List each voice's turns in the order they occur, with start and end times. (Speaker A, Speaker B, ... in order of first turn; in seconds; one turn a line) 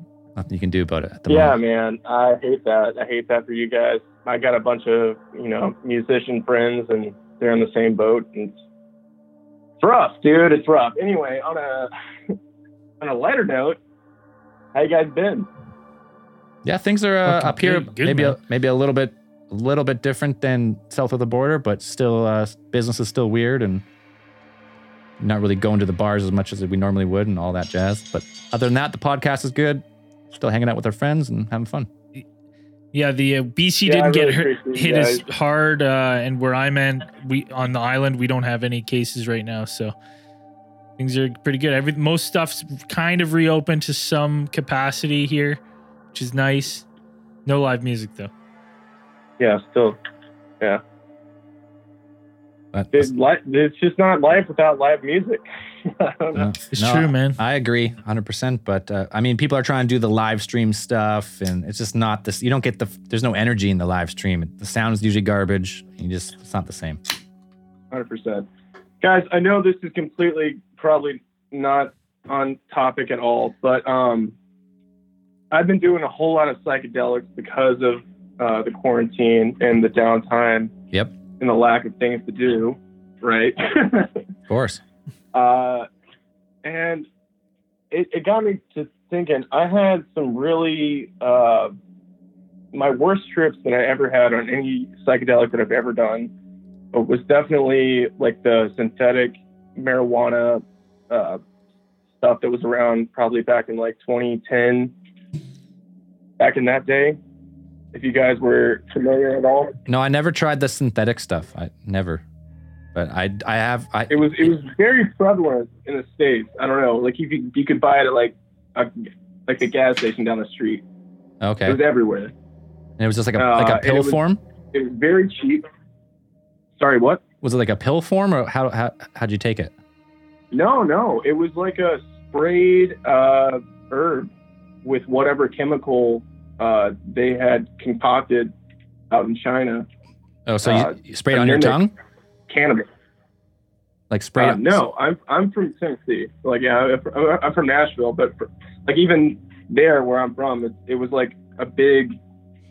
Speaker A: 0.3-1.6
Speaker B: 1.3-8.6
Speaker B: 9.8-12.3
Speaker B: 13.0-13.8
Speaker B: 14.7-15.5
Speaker A: 16.6-23.8
Speaker C: 17.2-18.4
Speaker A: 25.2-31.9
Speaker C: 32.9-39.9
Speaker B: 33.8-35.2
Speaker C: 41.0-45.6
Speaker C: 46.1-46.8
Speaker C: 47.4-48.3
Speaker B: 49.4-50.0
Speaker A: 52.7-53.1
Speaker B: 52.9-56.5
Speaker A: 56.3-67.0
Speaker C: 56.7-57.4
Speaker B: 67.9-68.5
Speaker B: 69.0-74.3
Speaker B: 75.5-80.7
Speaker B: 81.4-84.2
Speaker A: 84.5-84.8
Speaker B: 85.3-85.9
Speaker B: 86.6-87.1
Speaker B: 87.9-91.7
Speaker B: 92.7-96.3
Speaker B: 96.9-101.4
Speaker B: 102.2-104.9
Speaker B: 106.4-107.2
Speaker B: 107.9-109.7
Speaker A: 109.9-112.2
Speaker A: 112.9-114.4
Speaker B: 114.1-120.8
Speaker A: 121.4-121.8
Speaker B: 121.7-122.3
Speaker A: 123.0-124.4
Speaker B: 123.3-124.2
Speaker B: 124.7-125.7
Speaker B: 126.8-127.2
Speaker A: 127.4-129.7
Speaker B: 130.5-134.3
Speaker B: 134.8-138.5
Speaker B: 139.1-139.8
Speaker A: 140.5-141.9
Speaker B: 140.6-141.9
Speaker B: 142.5-142.9
Speaker A: 144.1-144.8
Speaker B: 144.4-152.2